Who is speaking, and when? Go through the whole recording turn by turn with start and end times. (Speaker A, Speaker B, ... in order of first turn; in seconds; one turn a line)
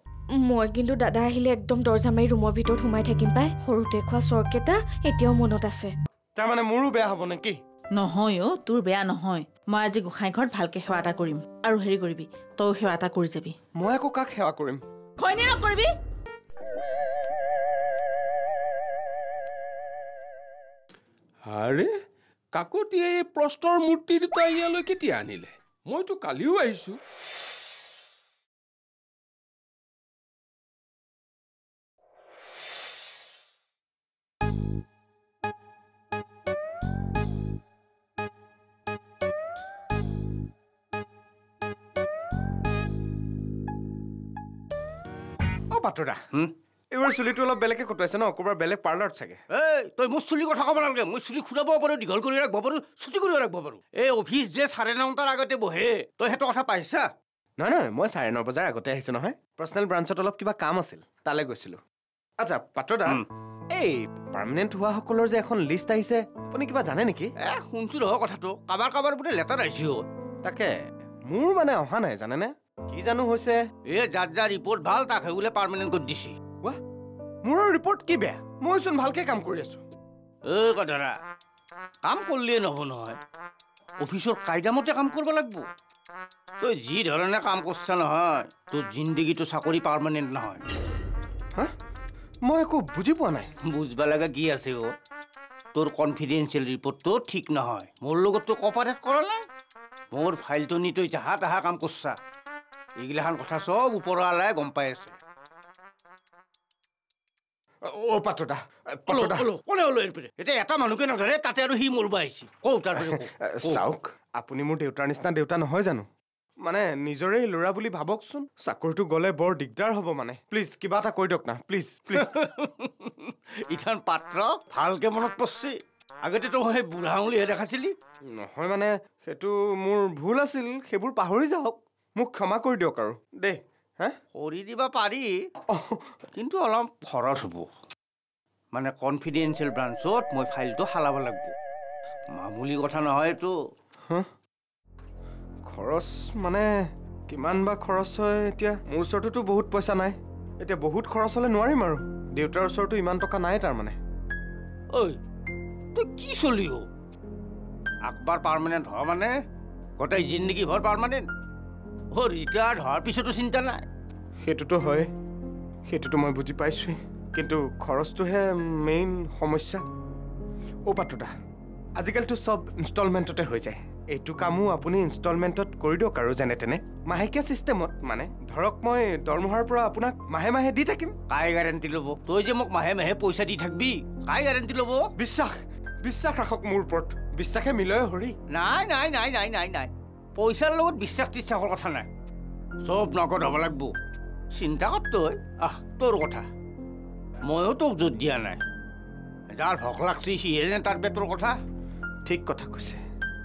Speaker A: 0.3-5.9
Speaker B: 6.3-7.6
Speaker C: 7.9-13.6
Speaker B: 13.8-14.8
Speaker C: 15.2-15.9
Speaker D: 21.4-21.9
Speaker D: 22.5-27.0
Speaker B: 45.7-46.2
Speaker B: 46.9-49.4
Speaker E: 49.5-57.0
Speaker B: 57.6-61.8
Speaker B: 62.4-67.3
Speaker E: 67.4-70.0
Speaker B: 70.4-70.7
Speaker B: 71.3-73.6
Speaker E: 73.9-76.3
Speaker B: 77.4-79.8
Speaker E: 80.5-81.1
Speaker E: 82.0-83.2
Speaker E: 84.0-85.6
Speaker E: 86.6-90.6
Speaker B: 92.5-93.5
Speaker E: 93.6-94.8
Speaker E: 95.7-99.4
Speaker E: 100.1-102.2
Speaker E: 103.0-105.1
Speaker B: 107.9-109.5
Speaker E: 109.1-113.8
Speaker B: 113.1-116.1
Speaker B: 116.6-122.3
Speaker E: 122.1-127.9
Speaker B: 128.3-134.2
Speaker E: 134.3-135.3
Speaker B: 135.7-136.0
Speaker E: 136.3-137.7
Speaker E: 138.7-141.5
Speaker E: 142.3-143.5
Speaker B: 145.7-146.7
Speaker B: 147.3-154.0
Speaker E: 155.9-156.8
Speaker E: 158.1-159.3
Speaker E: 160.0-161.2
Speaker E: 162.1-163.8
Speaker B: 164.4-165.1
Speaker B: 165.9-169.8
Speaker B: 170.9-171.3
Speaker B: 172.0-181.1
Speaker E: 181.3-185.0
Speaker B: 185.2-188.4
Speaker E: 188.5-192.1
Speaker E: 192.8-193.9
Speaker E: 194.5-196.4
Speaker E: 197.5-198.6
Speaker E: 199.5-201.5
Speaker B: 202.2-203.0